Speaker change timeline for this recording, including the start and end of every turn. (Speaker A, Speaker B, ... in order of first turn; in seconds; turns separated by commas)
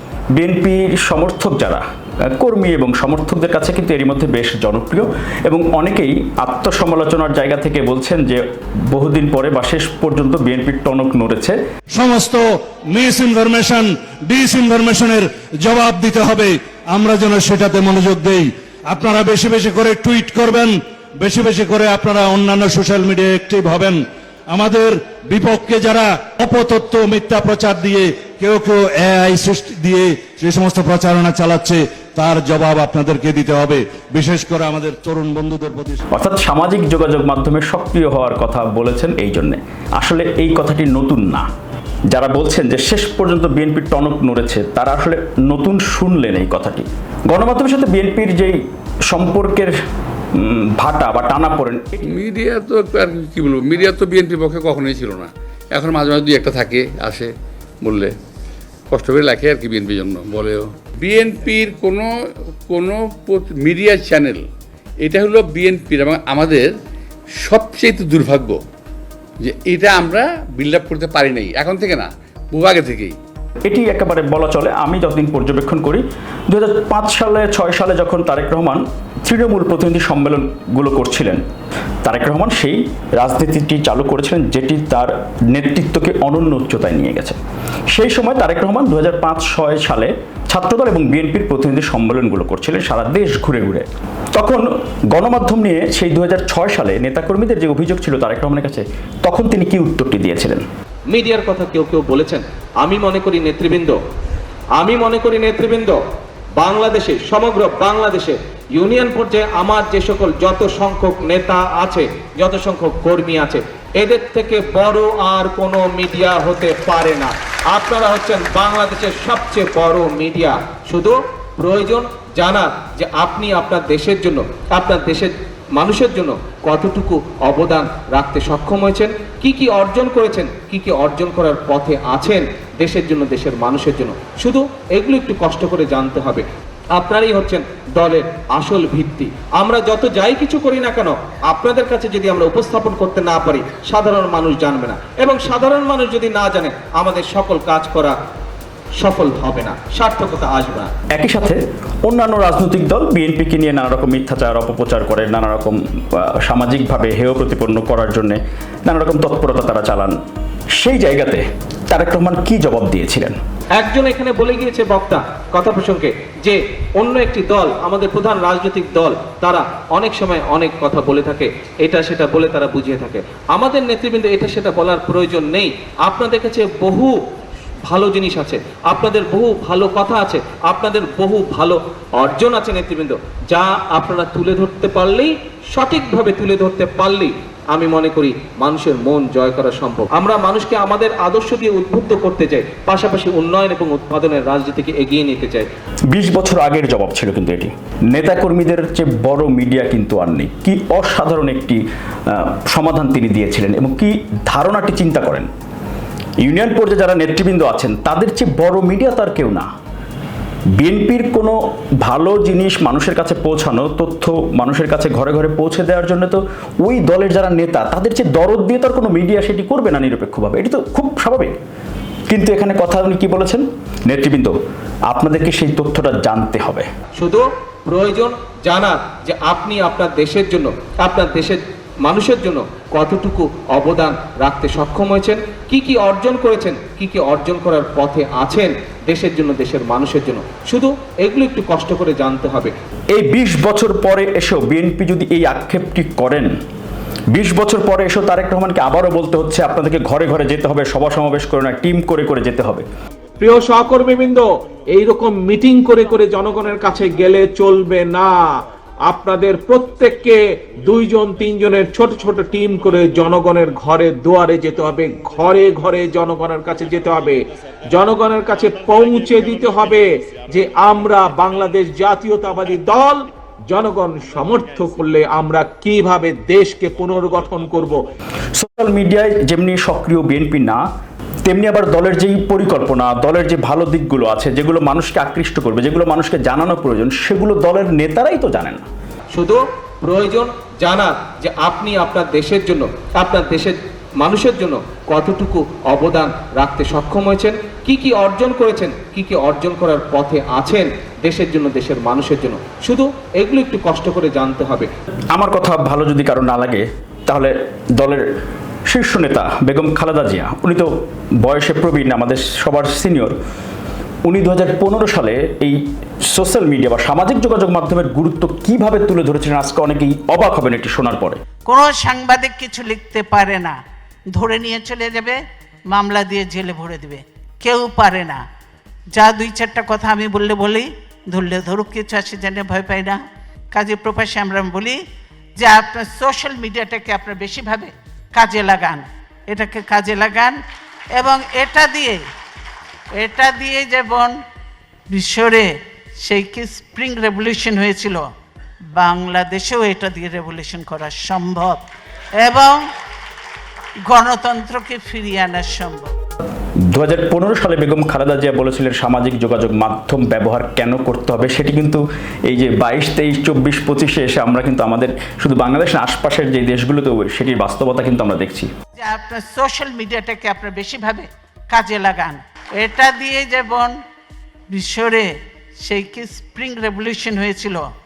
Speaker A: 0.3-11.6, Speaker B: 11.9-36.0, Speaker A: 36.1-41.5, Speaker A: 42.1-48.6, Speaker A: 49.1-49.7, Speaker A: 50.3-52.0, Speaker C: 52.1-58.1, Speaker C: 58.9-62.1, Speaker C: 62.7-64.5, Speaker C: 65.0-66.7, Speaker C: 67.4-68.6, Speaker C: 69.4-73.2, Speaker A: 73.7-81.4, Speaker A: 82.0-87.4, Speaker A: 87.9-100.7, Speaker D: 101.1-104.0, Speaker D: 104.8-106.0, Speaker D: 106.6-148.2, Speaker D: 149.0-150.9, Speaker A: 151.1-160.2, Speaker A: 160.8-163.4, Speaker D: 163.8-177.2, Speaker D: 177.9-195.7, Speaker A: 196.1-201.8, Speaker A: 202.3-205.5, Speaker A: 206.4-209.7, Speaker A: 210.8-221.6, Speaker A: 222.3-224.5, Speaker A: 225.1-226.9, Speaker D: 227.2-242.7, Speaker A: 243.1-246.5, Speaker A: 247.3-252.8, Speaker E: 253.4-258.4, Speaker E: 259.1-278.0, Speaker A: 278.5-280.8, Speaker A: 281.4-288.9, Speaker D: 289.3-304.9, Speaker A: 305.3-308.2, Speaker A: 308.9-310.9, Speaker A: 311.4-313.3, Speaker A: 314.2-315.8, Speaker A: 316.3-321.4, Speaker F: 321.6-323.8, Speaker F: 324.3-325.4, Speaker F: 325.9-328.4, Speaker F: 329.1-333.2, Speaker F: 333.7-335.0, Speaker F: 335.6-340.6, Speaker F: 341.1-342.2, Speaker F: 343.1-344.3, Speaker F: 345.1-345.7, Speaker F: 346.2-348.2, Speaker F: 349.0-351.8, Speaker F: 352.4-352.8, Speaker F: 354.1-356.1, Speaker A: 356.9-368.7, Speaker F: 369.0-373.9, Speaker F: 374.7-375.3, Speaker F: 375.8-377.8